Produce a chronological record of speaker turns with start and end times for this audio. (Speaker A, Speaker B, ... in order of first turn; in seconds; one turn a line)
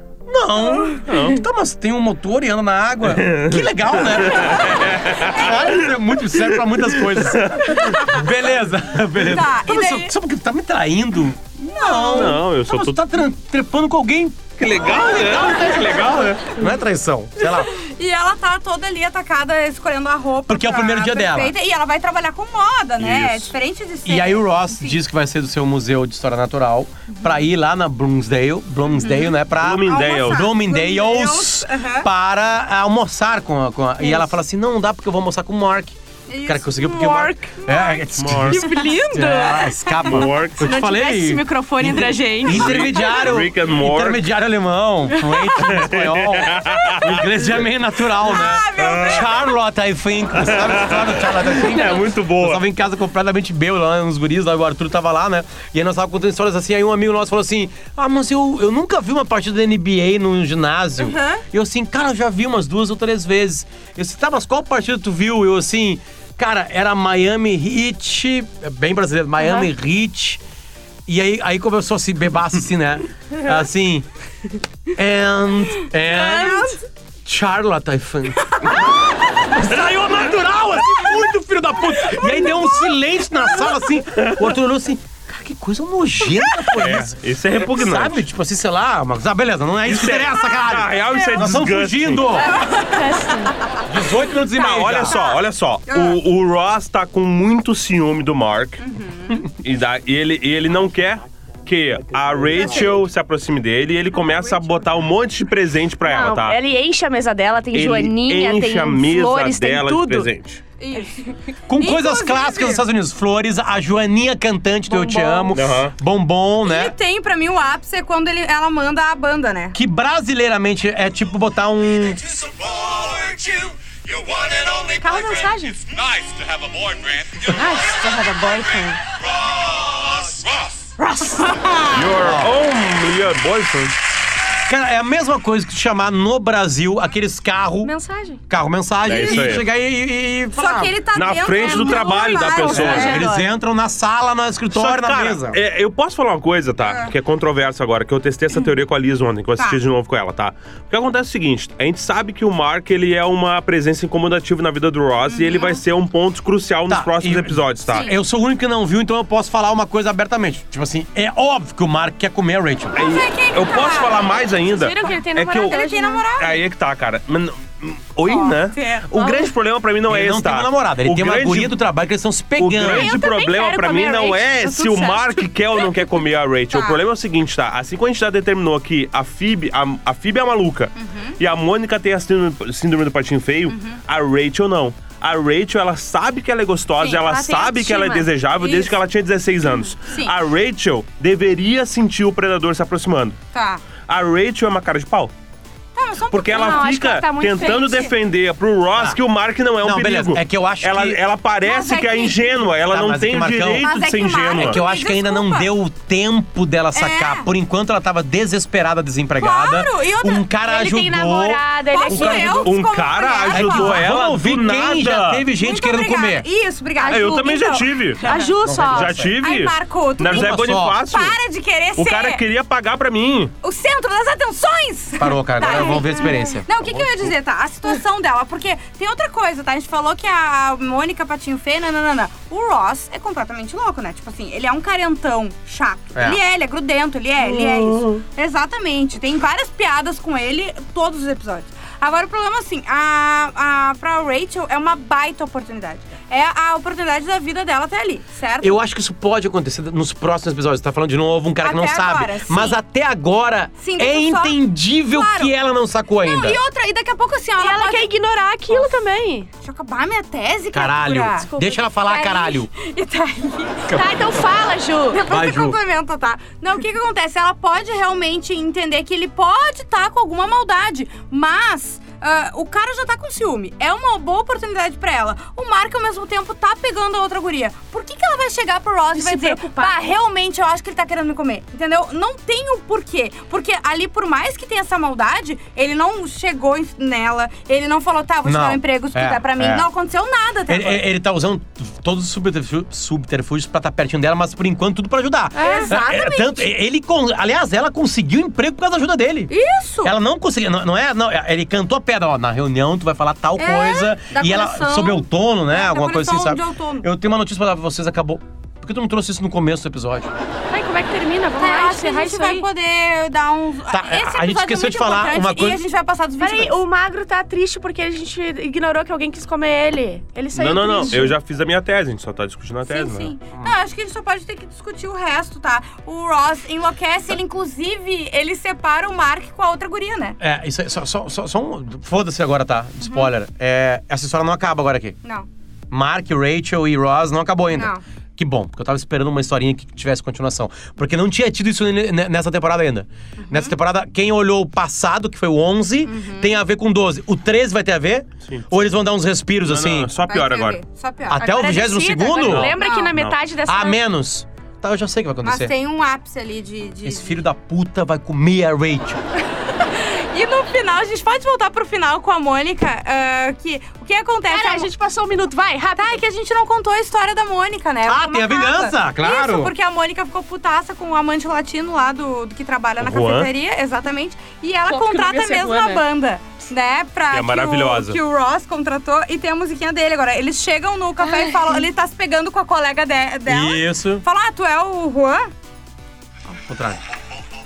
Speaker A: 0.3-17.7
Speaker B: 1.0-1.4
Speaker B: 3.0-7.9
Speaker C: 4.4-5.5
Speaker C: 7.8-8.1
Speaker C: 9.2-10.1
Speaker C: 11.7-12.4
Speaker B: 12.1-13.0
Speaker B: 14.6-16.5
Speaker C: 15.1-16.2
Speaker C: 17.7-25.0
Speaker A: 20.5-21.5
Speaker B: 23.0-23.5
Speaker A: 24.0-70.4
Speaker C: 28.9-29.3
Speaker B: 29.6-30.5
Speaker C: 29.8-32.1
Speaker D: 34.0-34.2
Speaker C: 36.3-38.0
Speaker D: 37.0-37.5
Speaker B: 38.2-38.6
Speaker D: 38.4-39.7
Speaker B: 40.0-40.7
Speaker D: 40.6-43.0
Speaker B: 42.4-44.2
Speaker D: 45.2-45.5
Speaker B: 45.5-47.3
Speaker C: 48.2-49.5
Speaker B: 48.8-49.3
Speaker B: 50.3-52.6
Speaker C: 61.0-61.4
Speaker D: 69.4-69.7
Speaker A: 71.1-74.0
Speaker A: 74.9-76.7
Speaker D: 76.1-76.7
Speaker C: 76.1-76.8
Speaker A: 77.2-92.5
Speaker B: 84.2-84.5
Speaker B: 86.7-88.2
Speaker B: 89.8-92.4
Speaker C: 91.1-91.4
Speaker C: 92.3-93.8
Speaker D: 92.5-93.5
Speaker A: 93.8-95.2
Speaker C: 94.5-96.2
Speaker B: 94.6-98.8
Speaker C: 98.8-99.4
Speaker B: 99.3-106.6
Speaker C: 102.5-103.0
Speaker C: 104.2-104.6
Speaker D: 106.0-110.3
Speaker B: 107.7-110.6
Speaker C: 110.8-112.8
Speaker A: 111.7-116.9
Speaker D: 114.9-115.6
Speaker B: 115.5-115.9
Speaker C: 116.6-119.8
Speaker A: 119.7-122.2
Speaker E: 122.0-130.9
Speaker C: 125.0-125.7
Speaker D: 125.1-125.5
Speaker D: 127.5-129.0
Speaker C: 131.0-132.1
Speaker B: 131.9-133.9
Speaker A: 132.1-132.5
Speaker A: 134.7-137.9
Speaker D: 137.8-138.4
Speaker A: 138.5-141.0
Speaker B: 139.0-139.7
Speaker C: 139.1-139.5
Speaker C: 140.6-143.3
Speaker B: 141.1-143.3
Speaker D: 141.6-143.5
Speaker A: 142.6-145.6
Speaker B: 144.7-158.1
Speaker C: 146.8-147.1
Speaker C: 155.3-155.8
Speaker A: 156.9-162.9
Speaker C: 157.9-158.1
Speaker C: 162.9-164.4
Speaker B: 162.9-165.8
Speaker D: 164.7-166.2
Speaker C: 165.0-166.6
Speaker B: 166.4-171.7
Speaker C: 168.2-169.1
Speaker D: 169.2-169.4
Speaker A: 170.1-173.1
Speaker B: 172.6-193.4
Speaker D: 172.8-175.8
Speaker C: 176.7-177.0
Speaker C: 181.0-181.4
Speaker C: 183.7-184.0
Speaker C: 187.0-188.9
Speaker C: 190.0-190.3
Speaker C: 193.5-193.8
Speaker B: 194.1-195.3
Speaker C: 195.9-196.9
Speaker B: 196.3-204.8
Speaker D: 196.5-198.1
Speaker A: 199.8-201.2
Speaker C: 201.6-202.6
Speaker A: 202.9-212.7
Speaker C: 203.8-205.7
Speaker C: 206.9-207.5
Speaker C: 209.4-210.5
Speaker D: 210.6-212.6
Speaker C: 211.9-214.0
Speaker B: 212.6-215.4
Speaker A: 213.5-216.4
Speaker C: 215.6-218.6
Speaker D: 217.0-217.6
Speaker B: 217.1-221.4
Speaker D: 218.2-219.1
Speaker A: 218.6-219.3
Speaker C: 219.4-222.4
Speaker A: 220.2-221.0
Speaker B: 222.0-223.5
Speaker C: 223.6-248.8
Speaker A: 225.2-226.7
Speaker A: 236.1-236.4
Speaker A: 248.6-256.6
Speaker C: 251.6-252.8
Speaker C: 253.8-255.5
Speaker C: 256.2-258.1
Speaker D: 257.6-259.5
Speaker C: 259.6-261.5
Speaker A: 260.7-262.7
Speaker D: 261.5-261.8
Speaker C: 262.1-264.1
Speaker A: 263.9-264.4
Speaker D: 263.9-265.2
Speaker C: 265.1-291.1
Speaker A: 265.3-265.8
Speaker D: 279.1-280.1
Speaker A: 288.4-289.9
Speaker A: 290.7-299.5
Speaker C: 295.6-296.7
Speaker D: 295.6-295.9
Speaker C: 299.5-300.1
Speaker A: 300.0-310.3
Speaker C: 303.6-307.1
Speaker D: 310.7-312.7
Speaker C: 311.6-316.8
Speaker A: 313.9-315.8
Speaker D: 316.4-321.4
Speaker B: 320.5-323.3
Speaker C: 322.9-330.4
Speaker A: 330.4-335.2
Speaker C: 333.0-333.3
Speaker A: 335.9-350.1
Speaker C: 337.7-338.0
Speaker C: 343.4-343.7
Speaker C: 346.0-346.6
Speaker B: 349.6-350.8
Speaker C: 350.2-351.6
Speaker A: 351.3-352.8
Speaker D: 351.4-354.0
Speaker B: 352.3-353.4
Speaker C: 352.8-353.1
Speaker A: 353.6-355.7
Speaker C: 355.4-357.4
Speaker A: 357.0-359.2
Speaker C: 359.7-364.9
Speaker D: 364.5-366.2
Speaker C: 365.9-385.5
Speaker A: 368.0-369.7
Speaker B: 373.0-373.5
Speaker D: 374.9-376.0
Speaker B: 377.3-378.2
Speaker A: 383.5-384.2
Speaker A: 386.7-387.0